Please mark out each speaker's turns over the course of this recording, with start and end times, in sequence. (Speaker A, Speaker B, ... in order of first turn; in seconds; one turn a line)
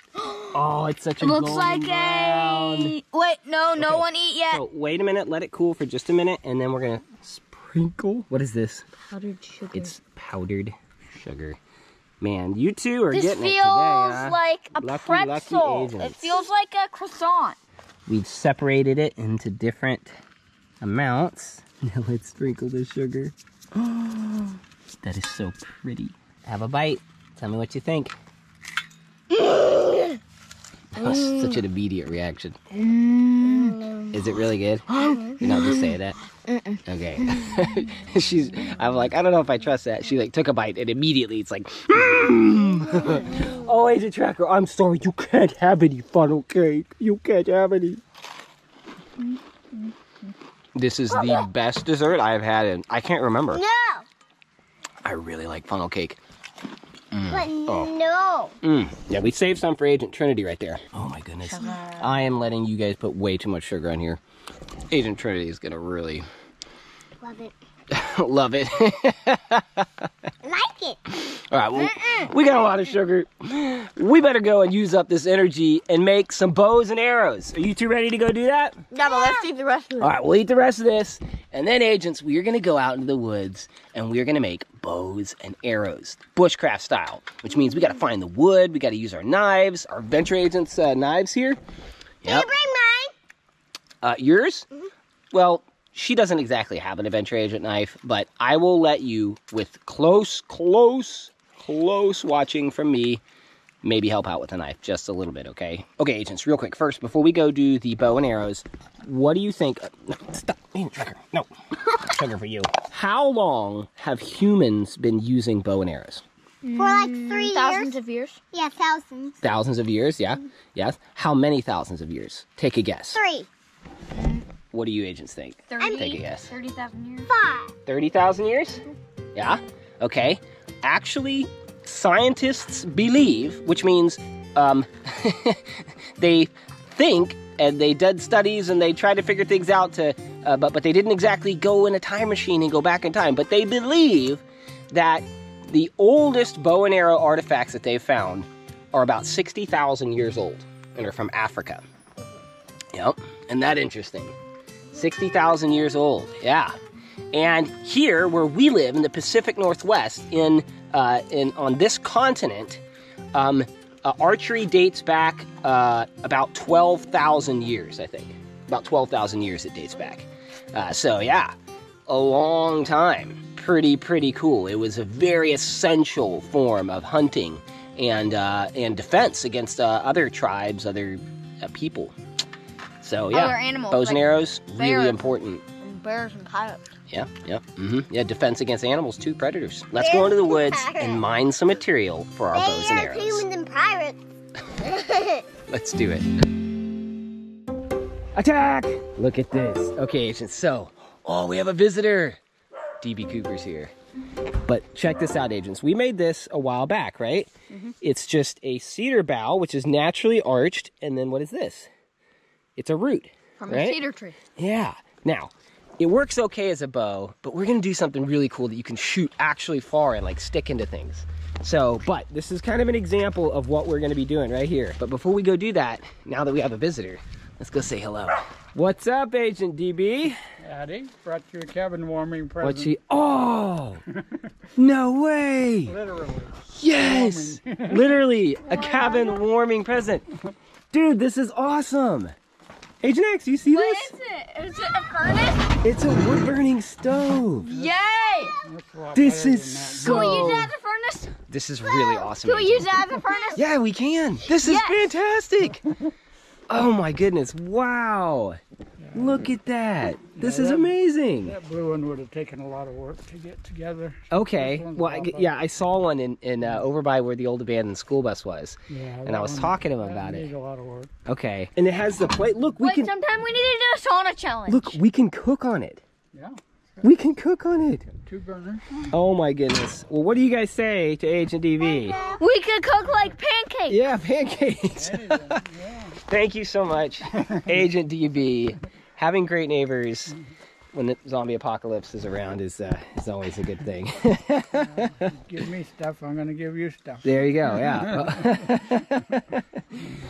Speaker A: 0.2-0.5
Speaker B: 0.5-3.0
Speaker A: 1.2-4.6
Speaker B: 3.8-8.9
Speaker A: 9.1-9.9
Speaker B: 9.7-11.6
Speaker B: 12.2-16.4
Speaker A: 13.1-17.6
Speaker B: 18.1-20.2
Speaker B: 20.8-23.3
Speaker B: 25.0-28.1
Speaker A: 29.3-30.2
Speaker B: 31.0-32.6
Speaker A: 31.0-31.6
Speaker A: 32.7-33.8
Speaker C: 33.4-34.1
Speaker B: 34.1-36.2
Speaker A: 35.0-35.7
Speaker A: 36.5-37.7
Speaker B: 36.9-48.0
Speaker C: 43.0-43.4
Speaker A: 49.2-49.9
Speaker B: 50.8-53.6
Speaker C: 53.5-54.1
Speaker B: 55.0-56.2
Speaker B: 57.1-57.9
Speaker C: 57.3-58.5
Speaker B: 58.6-64.2
Speaker A: 61.5-62.0
Speaker B: 64.9-66.3
Speaker C: 67.2-67.5
Speaker B: 67.9-70.1
Speaker C: 70.4-71.2
Speaker B: 71.3-78.8
Speaker C: 71.7-72.3
Speaker A: 78.9-80.1
Speaker C: 79.0-79.5
Speaker B: 80.0-91.6
Speaker C: 92.2-93.1
Speaker B: 94.0-94.7
Speaker B: 95.3-103.2
Speaker B: 103.8-116.2
Speaker A: 116.6-118.4
Speaker C: 116.8-118.0
Speaker C: 118.5-119.4
Speaker B: 119.4-123.2
Speaker C: 123.1-123.5
Speaker A: 124.1-124.4
Speaker B: 124.7-126.5
Speaker A: 125.7-127.3
Speaker C: 125.8-126.2
Speaker C: 127.3-127.7
Speaker B: 127.9-128.8
Speaker B: 129.3-151.8
Speaker B: 152.9-154.3
Speaker B: 154.9-156.8
Speaker B: 157.3-162.8
Speaker B: 163.3-171.5
Speaker B: 172.1-182.2
Speaker B: 183.0-185.6
Speaker A: 183.3-185.3
Speaker A: 185.8-186.9
Speaker B: 187.1-193.4
Speaker C: 189.9-191.2
Speaker C: 192.5-195.5
Speaker B: 195.7-196.3
Speaker B: 198.3-202.4
Speaker B: 203.0-203.9
Speaker B: 204.7-211.9
Speaker B: 212.8-214.0
Speaker A: 213.6-214.4
Speaker B: 214.6-230.4
Speaker D: 230.6-232.9
Speaker B: 232.6-234.0
Speaker D: 234.2-234.5
Speaker B: 234.8-236.0
Speaker D: 235.9-238.2
Speaker B: 236.7-240.3
Speaker A: 238.7-239.4
Speaker B: 240.9-242.3
Speaker B: 243.0-244.1
Speaker A: 243.7-245.8
Speaker B: 245.8-247.7
Speaker A: 247.7-248.6
Speaker D: 248.6-250.5
Speaker B: 249.1-250.7
Speaker A: 250.0-253.6
Speaker B: 251.5-253.0
Speaker B: 253.6-255.8
Speaker A: 254.5-255.1
Speaker B: 256.7-258.6
Speaker D: 259.0-259.4
Speaker B: 259.1-261.6
Speaker D: 260.4-265.5
Speaker B: 264.3-270.5
Speaker D: 268.9-271.1
Speaker B: 271.3-273.1
Speaker A: 272.8-275.0
Speaker B: 274.7-276.0
Speaker D: 276.3-277.0
Speaker B: 277.0-278.1
Speaker D: 278.3-279.1
Speaker B: 279.1-282.2
Speaker C: 281.8-282.4
Speaker A: 282.4-284.0
Speaker B: 283.9-285.6
Speaker D: 284.8-286.2
Speaker B: 286.2-290.4
Speaker D: 287.4-287.8
Speaker B: 290.9-295.3
Speaker D: 294.8-298.6
Speaker B: 297.2-299.8